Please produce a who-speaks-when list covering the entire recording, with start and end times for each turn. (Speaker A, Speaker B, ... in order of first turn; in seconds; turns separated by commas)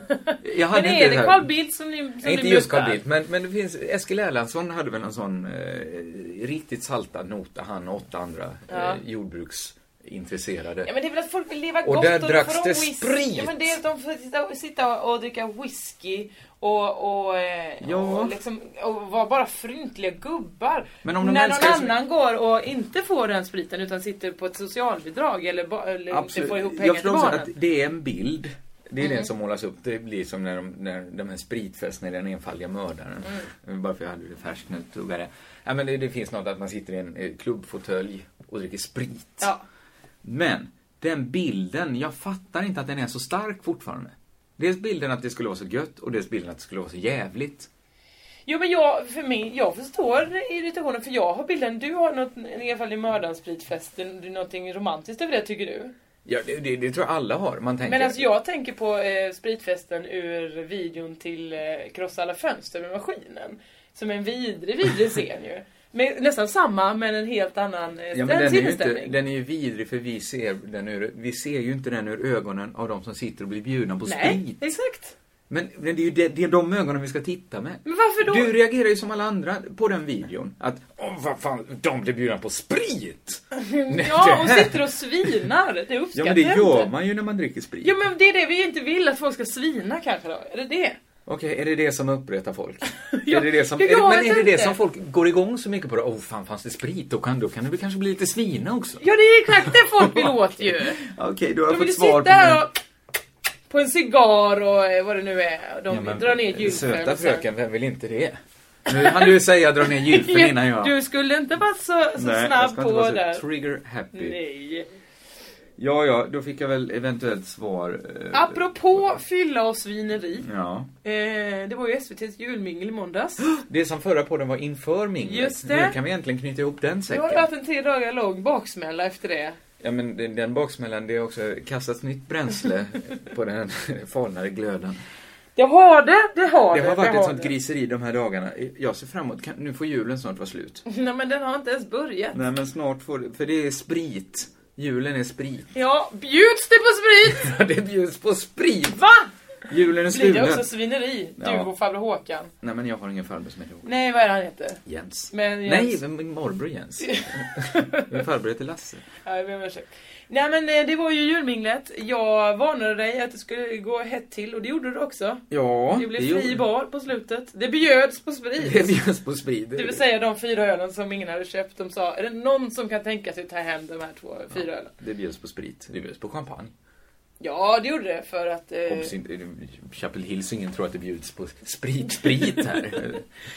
Speaker A: 0.3-3.0, Speaker B: 0.4-1.5, Speaker B: 2.2-10.9, Speaker A: 8.7-9.0, Speaker A: 10.8-27.5, Speaker B: 11.8-13.8, Speaker B: 17.8-18.4, Speaker B: 21.0-22.0, Speaker B: 26.1-39.5, Speaker A: 29.0-29.3, Speaker B: 40.2-47.7, Speaker A: 48.5-55.9, Speaker B: 56.3-58.2, Speaker A: 57.9-69.2, Speaker B: 68.1-74.6, Speaker A: 74.1-75.1, Speaker B: 75.5-85.5, Speaker A: 77.8-78.5, Speaker A: 83.6-86.9, Speaker B: 86.1-88.0, Speaker A: 87.8-91.0, Speaker B: 91.3-102.7, Speaker A: 93.1-94.8, Speaker A: 99.0-101.0, Speaker A: 101.7-102.8, Speaker A: 103.7-107.5, Speaker B: 105.9-111.0, Speaker A: 108.9-109.3, Speaker A: 109.9-113.4, Speaker B: 112.2-114.4, Speaker A: 114.1-114.9, Speaker B: 115.8-119.2, Speaker A: 118.3-120.5, Speaker B: 120.4-120.9, Speaker A: 121.0-123.5, Speaker B: 123.4-127.5, Speaker A: 125.2-126.0, Speaker A: 127.1-129.6, Speaker B: 129.8-135.0, Speaker A: 135.6-137.5, Speaker B: 136.7-140.8, Speaker A: 140.9-142.4, Speaker B: 142.3-145.7, Speaker A: 145.7-147.5, Speaker B: 147.2-149.0, Speaker A: 148.9-149.3, Speaker B: 149.7-150.7, Speaker A: 150.1-152.5, Speaker B: 151.4-151.7, Speaker B: 152.6-153.9, Speaker A: 153.8-154.8, Speaker B: 154.9-159.1, Speaker A: 155.3-156.0, Speaker A: 157.0-158.2, Speaker A: 159.2-169.0, Speaker B: 165.5-166.6, Speaker B: 168.6-170.0, Speaker A: 169.8-174.9, Speaker B: 174.5-176.7, Speaker A: 177.4-179.2, Speaker B: 178.9-183.2, Speaker A: 182.3-183.0